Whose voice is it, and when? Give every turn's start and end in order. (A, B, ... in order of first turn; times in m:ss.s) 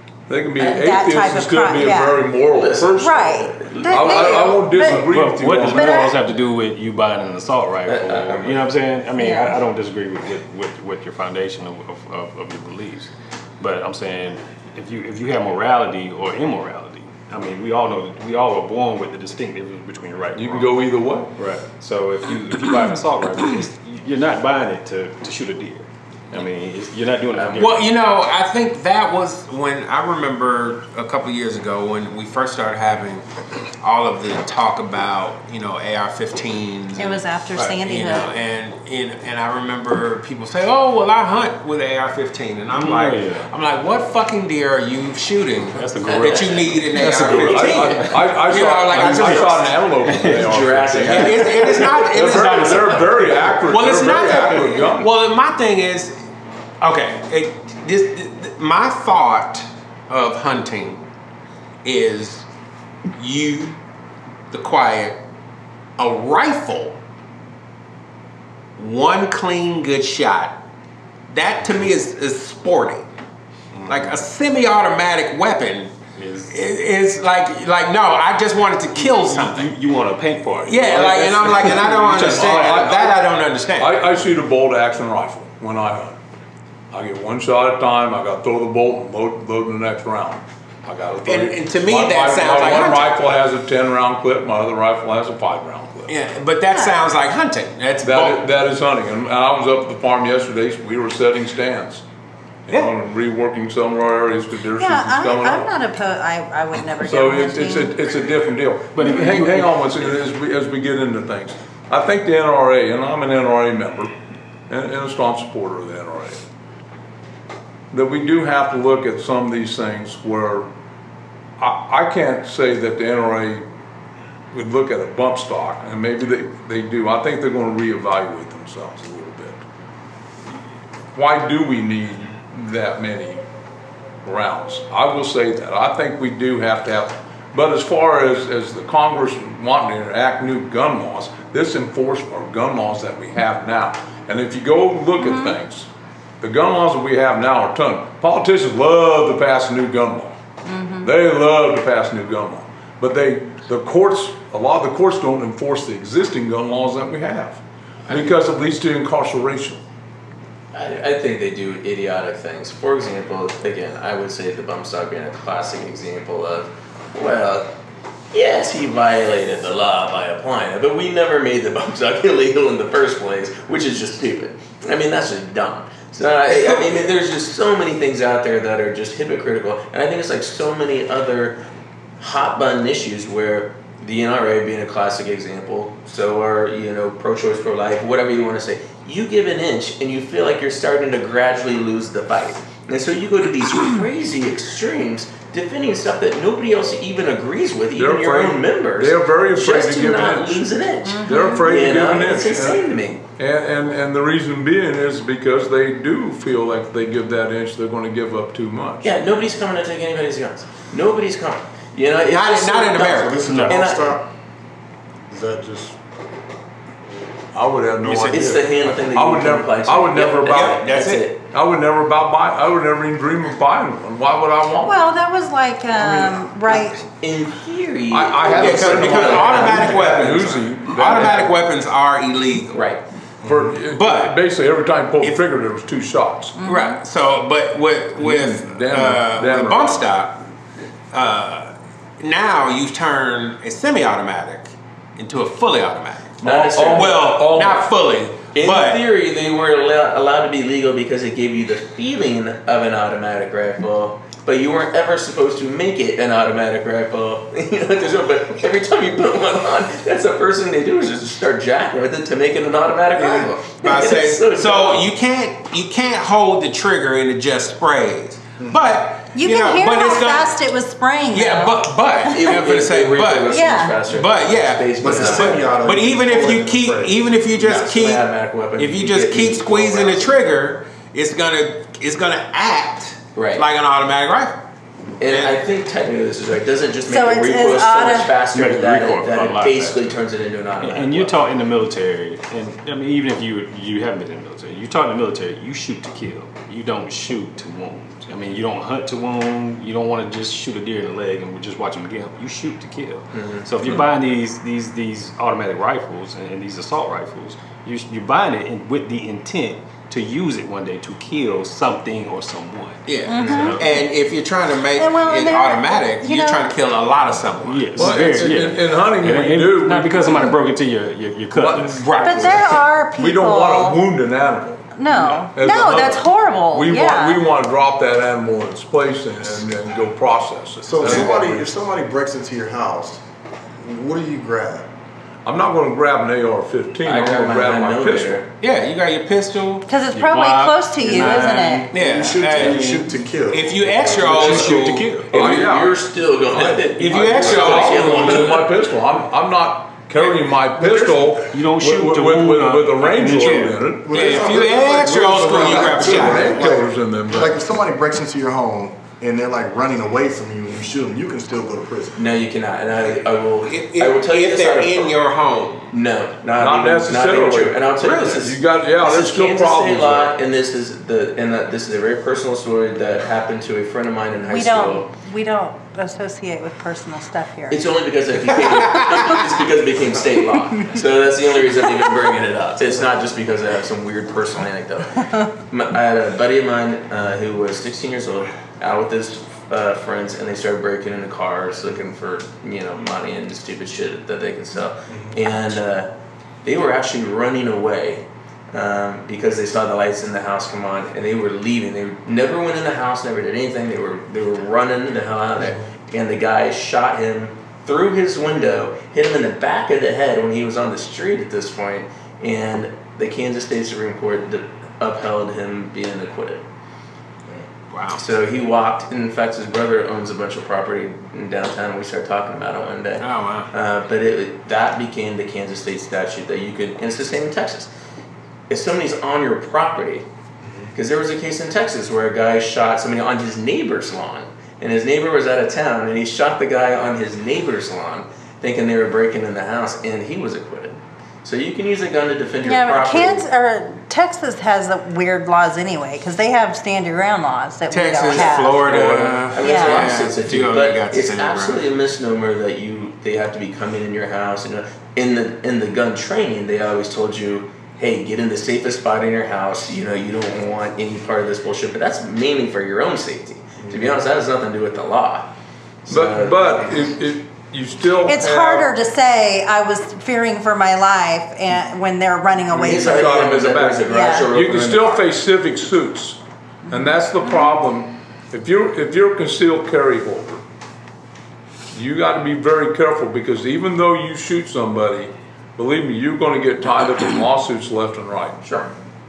0:00.3-0:03.3 A
0:00.6-0:02.3 B
0:02.5-0:04.6 C
0:03.0-0:05.0 B
0:03.9-0:06.0 A
0:04.8-0:20.7 D
0:05.7-0:06.2 B
0:07.8-0:08.7 C
0:09.2-0:09.5 B
0:20.3-0:21.3 A
0:21.4-0:27.9 D
0:27.3-0:27.7 C
0:27.6-0:33.2 E
0:33.8-0:49.7 E
0:37.0-0:38.3 B
0:42.7-0:43.5 D
0:45.7-0:48.2 D
0:46.0-0:46.6 C
0:46.9-0:55.1 A
0:49.0-0:50.5 D
0:50.0-0:52.9 C
0:51.1-0:56.2 E
0:51.7-0:53.3 D
0:56.8-1:01.0 E
1:01.8-1:02.4 E
1:03.2-1:03.8 E
1:04.5-1:05.2 E
1:06.0-1:07.0 E
1:08.8-1:10.6 E
1:11.3-1:13.0 E
1:13.7-1:14.2 D
1:13.9-1:15.9 E
1:16.2-1:16.6 D
1:16.5-1:19.7 E
1:18.9-1:23.0 D
1:20.6-1:24.0 E
1:21.2-1:23.2 A
1:23.8-1:26.2 A
1:26.9-1:36.1 A
1:31.2-1:33.3 E
1:36.1-1:38.4 E
1:36.7-1:37.0 B
1:38.0-1:42.0 A
1:42.7-1:45.7 A
1:44.8-1:48.0 B
1:47.0-1:54.1 A
1:48.9-1:49.9 D
1:54.7-1:56.4 A
1:57.9-2:00.7 A
2:01.6-2:03.6 A
2:04.5-2:09.6 A
2:11.1-2:13.4 A
2:14.2-2:25.9 A
2:25.2-2:25.6 B
2:26.4-2:30.4 A
2:30.6-2:31.1 B
2:31.0-2:39.8 A
2:40.7-2:47.7 C
2:48.3-3:01.6 C
3:02.2-3:23.2 C
3:17.9-3:20.7 A
3:21.0-3:21.7 B
3:21.2-3:22.8 A
3:23.4-3:29.1 A
3:29.0-3:34.2 C
3:32.2-3:33.7 E
3:33.1-3:34.3 F
3:33.5-3:33.9 D
3:35.3-3:36.0 F
3:37.5-3:40.9 A
3:38.0-3:38.4 E
3:38.3-3:41.4 C
3:40.4-3:41.2 E
3:41.5-3:45.1 A
3:44.8-3:47.0 B
3:46.0-3:46.4 A
3:47.1-3:50.5 C
3:48.1-3:51.6 A
3:48.5-3:52.9 E
3:52.7-3:53.0 C
3:53.4-3:53.7 F
3:53.4-3:56.6 A
3:53.8-3:54.4 E
3:56.6-3:57.0 B
3:56.6-4:00.4 E
3:58.2-4:00.1 A
4:01.1-4:09.0 E
4:06.4-4:07.3 C
4:06.4-4:07.9 A
4:08.5-4:25.1 C
4:23.1-4:30.5 E
4:29.3-4:31.8 B
4:31.3-4:44.6 E
4:32.3-4:35.8 C
4:33.5-4:34.0 B
4:35.0-4:37.2 F
4:37.5-4:40.4 C
4:43.3-4:43.6 C
4:45.2-4:51.4 C
4:45.3-4:45.6 E
4:47.1-4:48.3 B
4:48.5-4:50.0 D
4:50.8-5:14.0 D
5:03.3-5:03.7 C
5:13.0-5:18.7 E
5:13.3-5:14.0 B
5:15.0-5:16.7 B
5:17.6-5:22.5 D
5:18.0-5:20.5 A
5:21.5-5:22.1 A
5:22.0-5:22.8 E
5:22.2-5:24.0 B
5:23.2-5:31.6 A
5:24.9-5:27.4 B
5:30.8-5:33.2 F
5:33.8-5:34.9 F
5:35.4-5:38.4 A
5:37.0-5:38.5 C
5:38.6-5:45.7 E
5:39.9-5:41.9 B
5:41.1-5:44.9 F
5:41.2-5:41.8 D
5:42.5-5:43.1 D
5:44.2-5:46.0 A
5:44.7-5:45.2 D
5:45.3-5:48.7 C
5:46.5-5:46.9 F
5:46.9-5:48.6 E
5:47.2-5:57.6 A
5:51.5-5:53.9 D
5:54.0-6:02.2 F
5:54.1-5:56.7 E
6:02.2-6:05.1 C
6:03.2-6:05.9 E
6:05.9-6:15.0 C
6:06.6-6:10.3 A
6:08.0-6:08.4 E
6:14.5-6:17.8 B
6:17.7-6:36.1 C
6:18.6-6:19.4 E
6:35.1-6:35.3 F
6:36.6-6:56.6 C
6:57.9-6:58.3 E
6:58.1-7:07.9 C
7:03.2-7:03.7 E
7:08.7-7:10.2 C
7:10.6-7:10.9 F
7:10.9-7:23.4 C
7:22.6-7:28.9 B
7:27.9-7:31.8 E
7:28.4-7:45.5 C
7:28.8-7:29.4 A
7:29.6-7:30.1 B
7:43.8-7:44.2 F
7:46.0-7:47.0 C
7:46.1-7:48.9 A
7:48.2-7:53.4 B
7:52.7-7:55.3 C
7:52.7-8:00.6 A
7:54.1-7:54.5 B
8:01.9-8:08.6 A
8:08.6-8:08.9 C